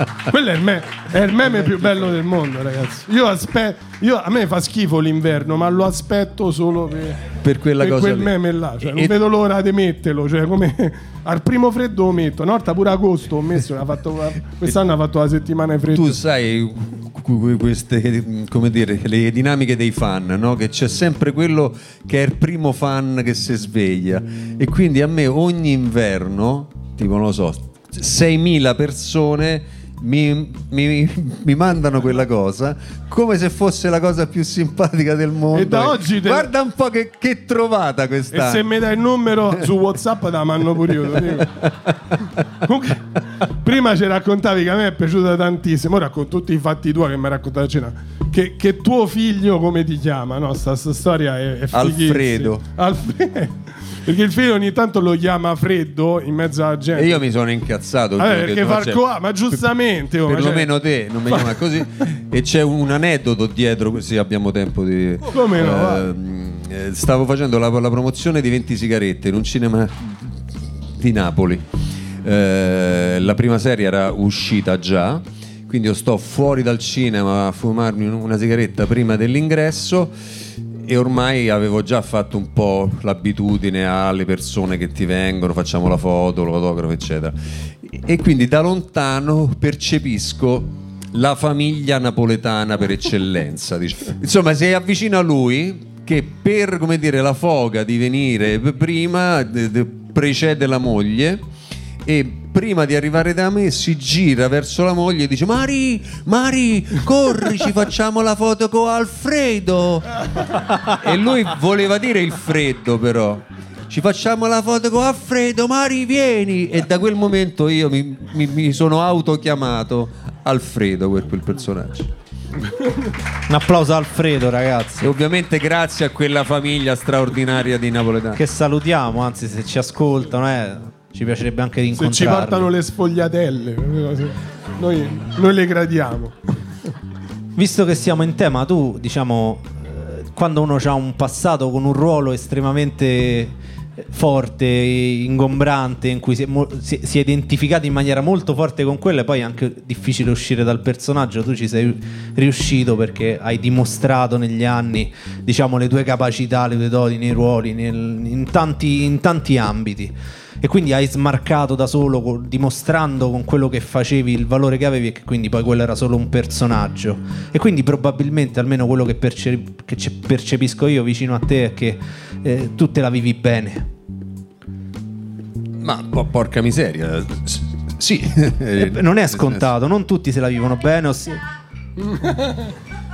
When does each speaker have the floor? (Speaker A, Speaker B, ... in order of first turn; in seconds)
Speaker A: 0.3-16.2, 35.5-36.5, 38.3-41.5, 42.2-57.2, 58.2-60.7, 61.3-61.6, 65.3-66.1, 132.0-136.6, 182.1-182.7
Speaker B: 7.4-9.1, 15.9-38.7, 41.1-42.0, 51.7-52.6, 56.9-59.0, 60.2-71.7, 72.2-80.2, 80.8-101.4, 102.0-122.1, 125.0-128.4, 175.8-179.7
Speaker C: 123.5-125.1, 128.4-132.7, 137.6-173.9, 178.8-181.4